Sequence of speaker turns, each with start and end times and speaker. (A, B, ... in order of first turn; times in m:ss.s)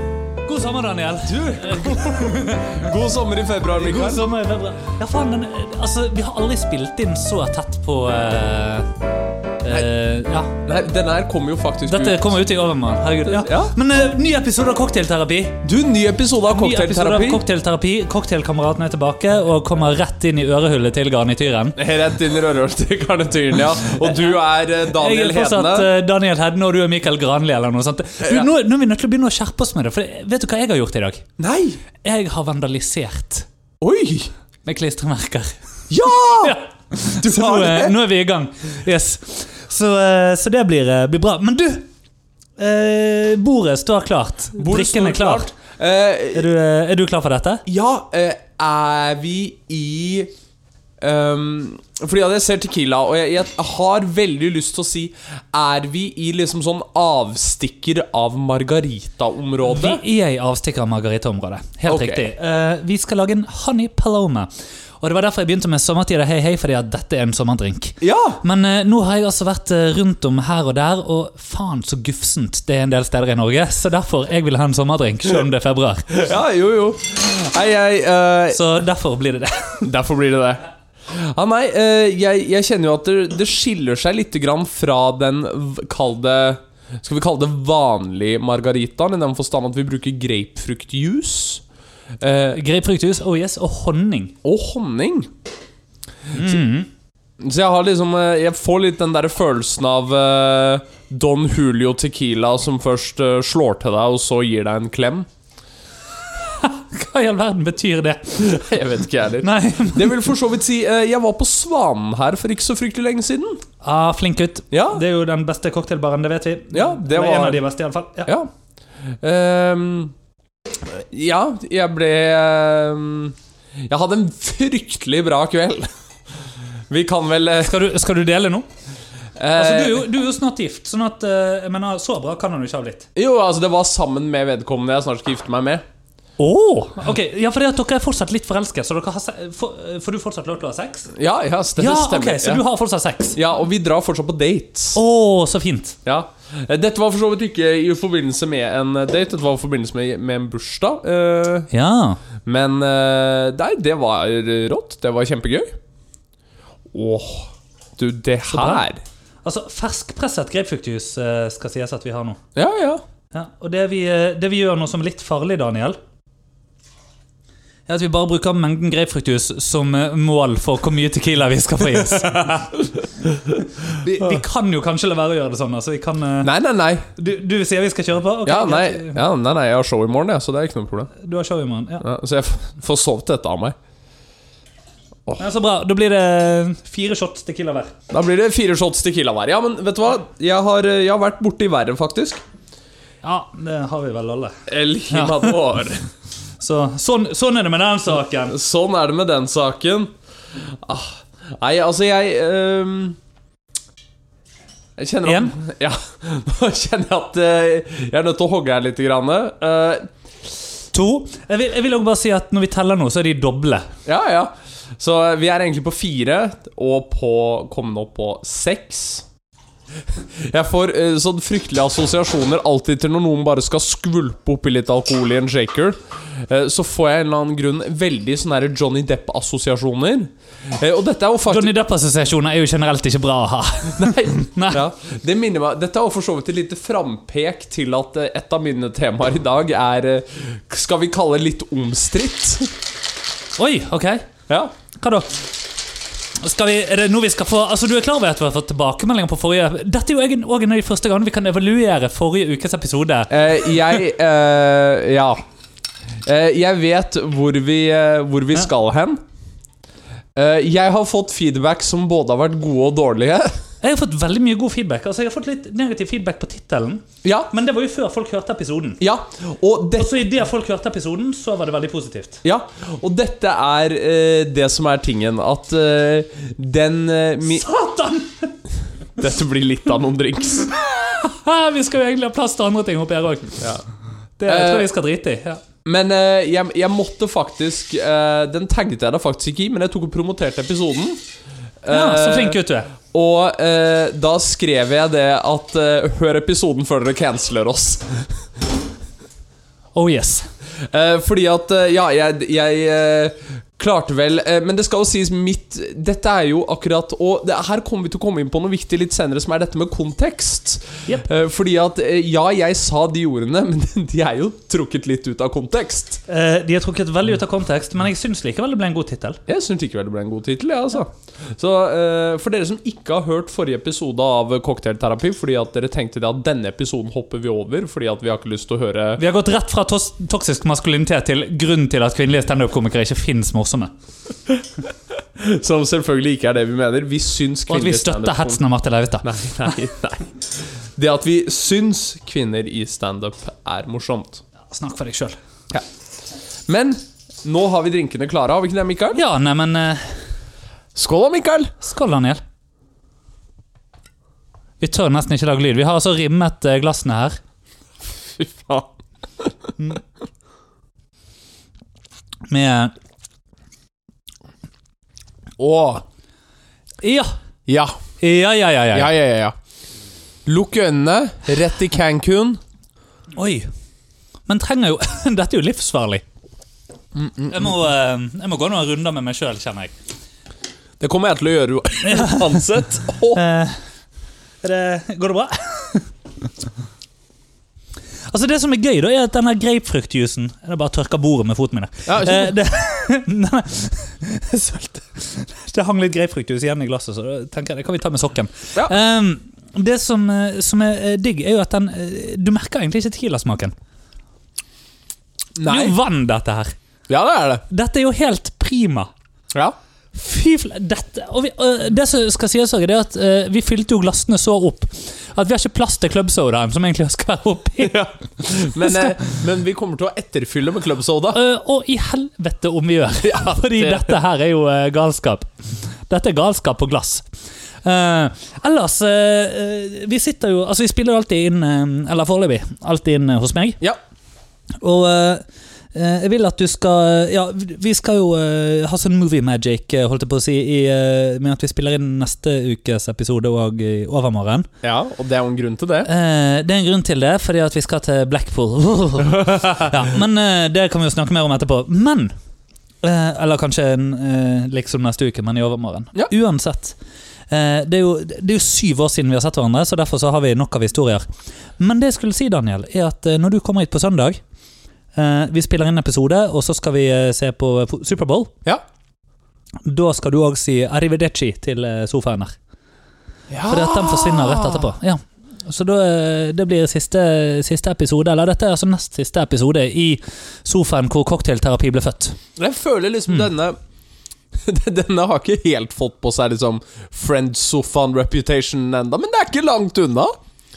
0:00.4-0:02.9 A
0:01.3-0:04.3 B
0:03.7-0:08.9 A
0:09.6-0:10.5 A
0:10.6-0:12.4 B
0:11.9-0:15.6 A
0:13.2-0:13.7 B
0:15.6-0:17.4 B
0:16.5-0:21.8 A
0:21.8-0:25.9 B
0:24.0-0:24.3 A
0:24.9-0:31.2 A
0:28.2-0:28.5 B
0:31.4-0:31.8 B
0:32.0-0:33.5 A
0:33.8-0:34.3 B
0:34.6-0:35.5 A
0:35.9-0:36.6 B
0:36.4-0:41.9 A
0:37.2-0:38.0 B
0:42.6-0:45.5 A
0:44.5-0:46.5 B
0:46.3-0:47.6 A
0:47.6-0:50.3 B
0:51.0-1:00.0 B
0:59.7-1:04.5 A
1:01.9-1:02.3 B
1:05.0-1:16.1 A
1:08.0-1:08.4 B
1:16.1-1:18.6 B
1:18.5-1:19.9 A
1:19.8-1:31.6 B
1:32.2-1:32.6 B
1:32.5-1:34.3 A
1:34.4-1:35.3 B
1:36.3-1:36.9 A
1:37.4-1:45.3 B
1:46.4-1:48.6 A
1:48.3-1:53.6 B
1:49.4-1:50.3 A
1:53.8-1:58.3 A
1:54.7-1:55.0 B
1:56.7-1:57.6 B
1:59.2-2:00.1 B
2:00.9-2:05.9 B
2:06.9-2:07.8 B
2:07.6-2:08.6 A
2:09.4-2:10.0 B
2:09.5-2:13.1 A
2:13.1-2:15.8 B
2:16.4-2:21.1 A
2:21.1-2:22.6 B
2:21.8-2:23.4 A
2:23.3-2:25.0 B
2:24.9-2:26.0 A
2:26.0-2:31.7 B
2:31.7-2:32.2 A
2:32.4-2:35.8 B
2:36.9-2:39.0 B
2:38.5-2:38.8 A
2:39.4-2:42.4 A
2:42.5-2:43.0 B
2:43.3-2:46.0 A
2:47.9-2:56.5 A
2:56.4-2:57.1 B
2:57.2-2:59.2 A
2:58.4-3:01.1 B
3:01.2-3:02.1 A
3:02.0-3:03.7 B
3:05.4-3:07.9 A
3:08.1-3:12.4 B
3:13.2-3:15.6 A
3:14.7-3:16.0 B
3:16.6-3:18.6 A
3:18.5-3:23.2 B
3:25.0-3:30.1 B
3:25.2-3:25.5 A
3:30.9-3:33.9 A
3:34.0-3:39.2 B
3:40.1-3:51.7 B
3:51.5-3:54.8 A
3:53.9-4:02.7 B
4:03.6-4:04.3 A
4:04.5-4:04.7 B
4:05.0-4:05.5 A
4:06.4-4:13.3 A
4:13.3-4:15.4 B
4:16.2-4:19.2 B
4:20.3-4:23.5 B
4:23.8-4:29.0 A
4:27.2-4:27.5 B
4:29.0-4:30.2 B
4:30.0-4:32.4 A
4:32.4-4:37.6 B
4:37.5-4:38.5 A
4:39.2-4:40.7 B
4:40.8-4:43.7 A
4:44.4-4:45.6 A
4:44.4-4:44.9 B
4:45.8-4:51.2 B
4:51.8-4:58.4 B
4:51.9-4:52.9 A
4:59.9-5:00.5 A
5:00.8-5:16.2 B
5:16.3-5:19.4 A
5:19.5-5:29.2 B
5:29.2-5:33.9 A
5:34.6-5:34.8 B
5:35.4-5:38.6 B
5:37.7-5:39.3 A
5:39.2-5:44.4 B
5:44.7-5:45.4 A
5:46.7-5:49.2 B
5:49.1-5:50.1 A
5:50.9-5:51.7 B
5:51.8-5:52.4 A
5:54.8-5:57.4 A
5:58.2-5:58.9 B
6:02.5-6:02.9 A
6:05.6-6:06.0 B
6:07.0-6:07.3 A
6:07.7-6:07.9 B
6:08.2-6:09.1 A
6:08.9-6:09.6 B
6:10.4-6:12.6 B
6:13.3-6:13.7 A
6:14.5-6:16.2 A
6:17.2-6:17.5 B
6:17.4-6:19.9 A
6:21.0-6:23.4 B
6:22.0-6:22.6 A
6:23.3-6:23.8 A
6:24.6-6:26.1 A
6:28.3-6:43.7 A
6:32.1-6:32.6 B
6:45.6-6:45.9 B
6:45.6-6:46.7 A
6:47.1-6:47.6 B
6:47.7-6:49.1 A
6:50.1-6:58.0 A
6:57.8-7:01.4 B
6:58.6-6:59.3 A
7:01.3-7:05.5 A
7:03.2-7:04.1 B
7:06.1-7:07.2 A
7:07.8-7:13.8 A
7:14.8-7:24.7 A
7:24.8-7:26.1 B
7:26.0-7:32.3 A
7:33.0-7:37.0 A
7:37.5-7:41.2 A
7:41.8-7:44.4 A
7:45.1-7:48.5 A
7:49.8-7:52.5 A
7:53.5-7:54.9 B
7:53.7-8:02.4 A
8:02.6-8:03.8 B
8:04.5-8:10.3 B